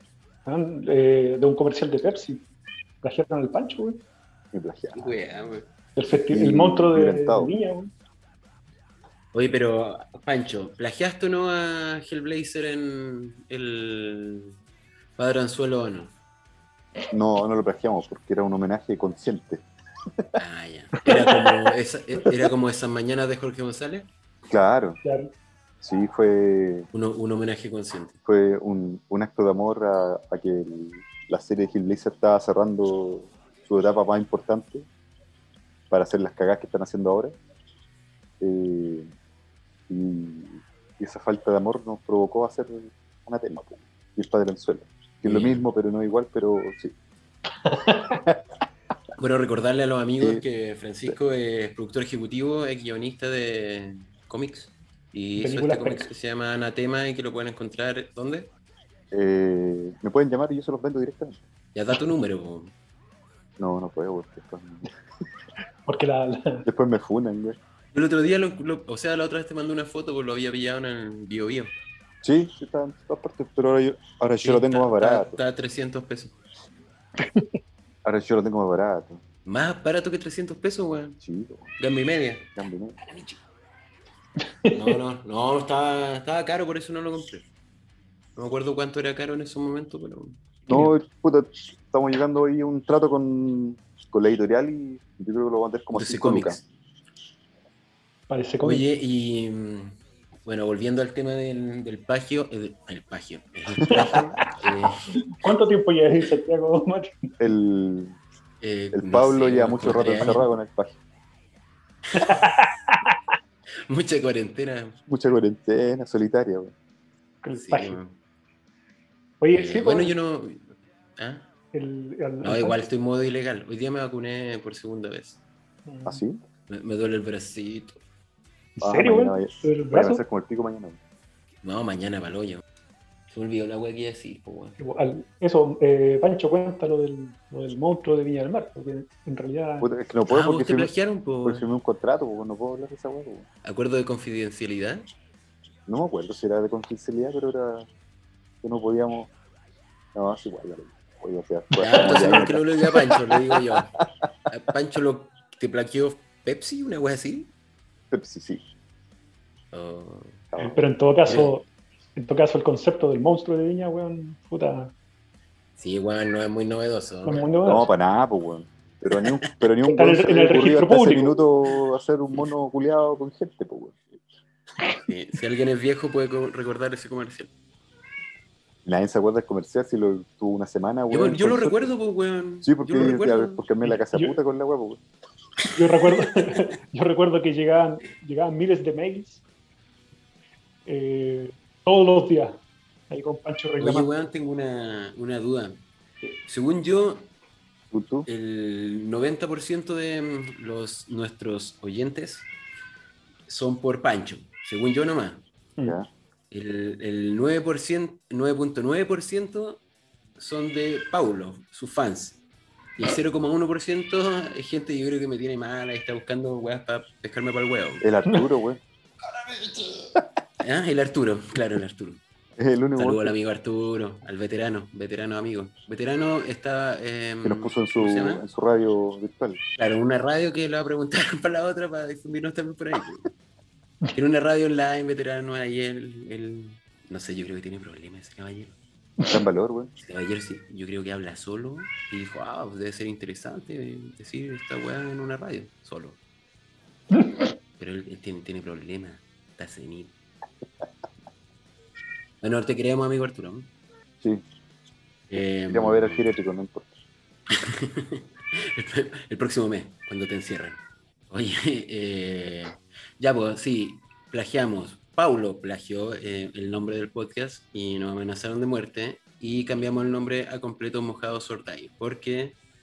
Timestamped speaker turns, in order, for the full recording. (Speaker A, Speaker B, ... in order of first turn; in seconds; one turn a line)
Speaker A: 0.5-2.5
Speaker A: 3.0-4.0
Speaker B: 4.5-5.2
Speaker C: 5.0-5.7
Speaker A: 6.0-7.9
Speaker B: 6.3-7.5
Speaker C: 9.3-14.6
Speaker C: 15.2-16.1
Speaker B: 17.1-20.4
Speaker C: 20.4-24.1
Speaker B: 24.5-25.0
Speaker A: 25.0-25.3
Speaker B: 25.8-26.9
Speaker C: 26.9-28.1
Speaker B: 28.2-34.9
Speaker B: 35.9-37.4
Speaker B: 38.4-39.1
Speaker B: 39.9-46.9
Speaker C: 45.2-45.6
Speaker A: 47.7-48.2
Speaker C: 49.2-58.5
Speaker A: 55.4-56.1
Speaker B: 59.1-61.4
Speaker C: 61.8-62.7
Speaker B: 63.6-64.9
Speaker A: 65.9-66.7
Speaker B: 66.7-67.6
Speaker C: 67.9-71.7
Speaker B: 72.2-75.4
Speaker C: 74.4-76.3
Speaker A: 77.2-77.5
Speaker B: 78.0-79.2
Speaker C: 79.5-81.2
Speaker B: 81.2-81.7
Speaker C: 81.8-82.5
Speaker B: 82.6-83.0
Speaker C: 83.0-83.4
Speaker A: 84.6-85.0
Speaker C: 84.7-87.5
Speaker C: 88.4-90.5
Speaker B: 90.7-96.6
Speaker C: 95.9-96.7
Speaker A: 98.3-98.9
Speaker C: 98.6-105.1
Speaker A: 103.9-104.5
Speaker A: 105.1-107.3
Speaker B: 107.4-108.2
Speaker C: 108.6-110.5
Speaker B: 108.9-111.0
Speaker C: 112.1-112.6
Speaker A: 112.1-113.1
Speaker C: 113.9-115.0
Speaker B: 115.1-116.7
Speaker A: 117.4-118.0
Speaker C: 117.5-118.2
Speaker A: 119.4-120.1
Speaker C: 119.5-120.7
Speaker C: 121.2-121.5
Speaker A: 121.7-122.9
Speaker C: 122.4-125.4
Speaker A: 125.9-126.2
Speaker B: 126.0-126.4
Speaker C: 126.7-128.0
Speaker A: 128.8-130.2
Speaker B: 128.8-131.0
Speaker C: 131.6-132.6
Speaker C: 133.3-134.8
Speaker A: 134.8-139.9
Speaker B: 139.8-140.9
Speaker C: 140.3-141.7
Speaker B: 141.4-143.5
Speaker C: 143.6-145.1
Speaker B: 145.9-147.9
Speaker B: 148.6-149.3
Speaker B: 150.1-154.0
Speaker A: 151.8-152.2
Speaker C: 151.8-154.0
Speaker C: 154.5-157.5
Speaker B: 158.1-158.6
Speaker C: 159.7-160.4
Speaker B: 160.5-160.8
Speaker A: 160.6-164.9
Speaker C: 161.3-161.6
Speaker C: 165.8-167.5
Speaker A: 167.2-167.9
Speaker B: 167.7-174.0
Speaker A: 169.9-171.4
Speaker C: 175.1-177.5
Speaker B: 178.8-181.9
Speaker C: 181.1-183.7
Speaker B: 182.6-185.0
Speaker A: 183.9-184.4
Speaker A: 185.7-189.4
Speaker C: 186.1-186.6
Speaker A: 190.9-194.1
Speaker C: 193.8-195.8
Speaker C: 196.5-197.3
Speaker B: 197.9-198.3
Speaker C: 198.3-202.5
Speaker C: 203.5-205.5
Speaker C: 206.5-209.8
Speaker C: 210.4-212.4
Speaker C: 213.0-218.1
Speaker B: 218.0-218.8
Speaker C: 220.6-222.2
Speaker B: 222.6-223.4
Speaker C: 223.0-228.4
Speaker B: 227.4-229.6
Speaker C: 229.8-233.3
Speaker C: 234.1-238.8
Speaker B: 239.3-239.9
Speaker C: 240.0-246.2
Speaker A: 247.1-247.5
Speaker C: 247.8-250.2
Speaker C: 252.4-253.7
Speaker C: 255.3-256.2
Speaker B: 255.7-256.9
Speaker C: 257.5-272.6